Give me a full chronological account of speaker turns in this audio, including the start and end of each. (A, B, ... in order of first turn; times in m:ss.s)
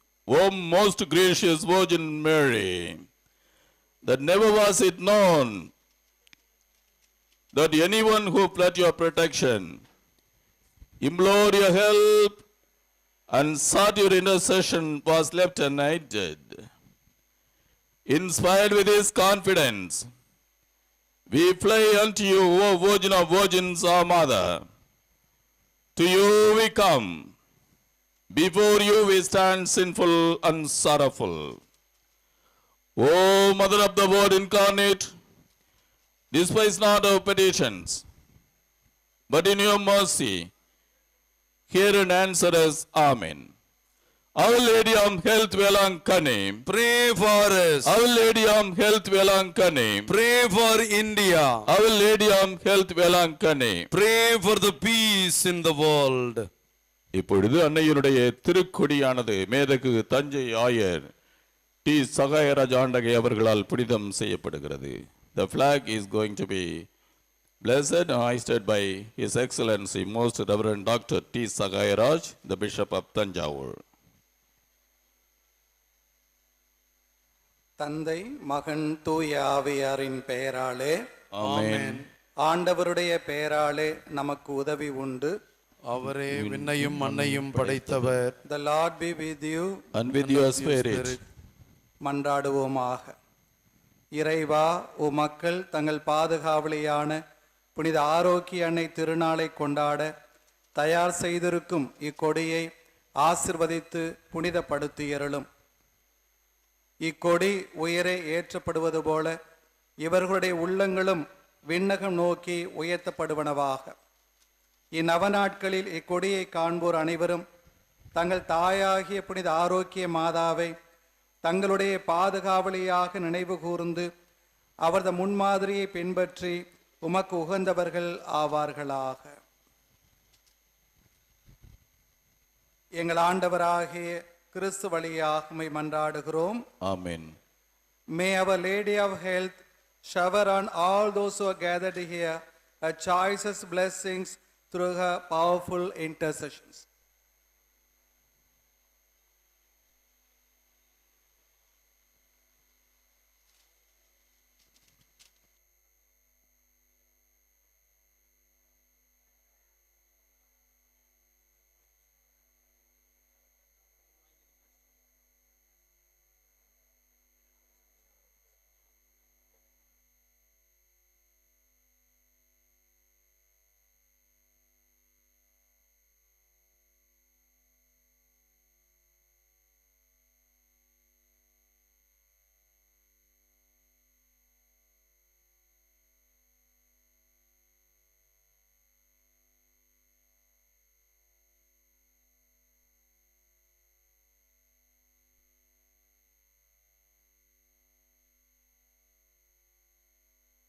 0:00.3-0:03.0 A
0:04.0-0:05.7 A
0:07.5-0:09.7 A
0:11.0-0:12.4 A
0:13.3-0:16.5 A
0:18.1-0:20.0 A
0:21.3-0:24.6 A
0:26.0-0:27.1 A
0:28.3-0:31.6 A
0:33.0-0:35.1 A
0:36.3-0:38.0 A
0:39.3-0:40.5 A
0:41.7-0:43.5 A
0:44.4-0:46.6 A
0:46.7-0:47.9 B
0:47.9-0:50.1 A
0:50.1-0:51.6 B
0:51.7-0:53.8 A
0:53.9-0:56.4 B
0:57.2-1:01.1 A
1:01.8-1:06.8 A
1:07.6-1:13.8 A
1:17.8-1:21.0 C
1:21.4-1:22.0 A
1:21.4-1:22.0 B
1:22.4-1:25.3 C
1:25.9-1:28.4 B
1:26.3-1:28.2 A
1:28.5-1:29.8 C
1:30.0-1:31.2 A
1:30.1-1:31.2 B
1:32.0-1:33.1 C
1:34.2-1:37.2 C
1:37.8-1:40.1 C
1:40.8-1:42.7 C
1:43.2-1:45.5 C
1:47.0-1:49.3 C
1:50.0-1:54.0 C
1:55.0-1:57.4 C
1:58.2-2:00.7 C
2:01.4-2:04.1 C
2:04.8-2:09.4 C
2:13.0-2:16.6 C
2:16.8-2:17.4 A
2:18.2-2:22.4 C
2:22.9-2:26.9 C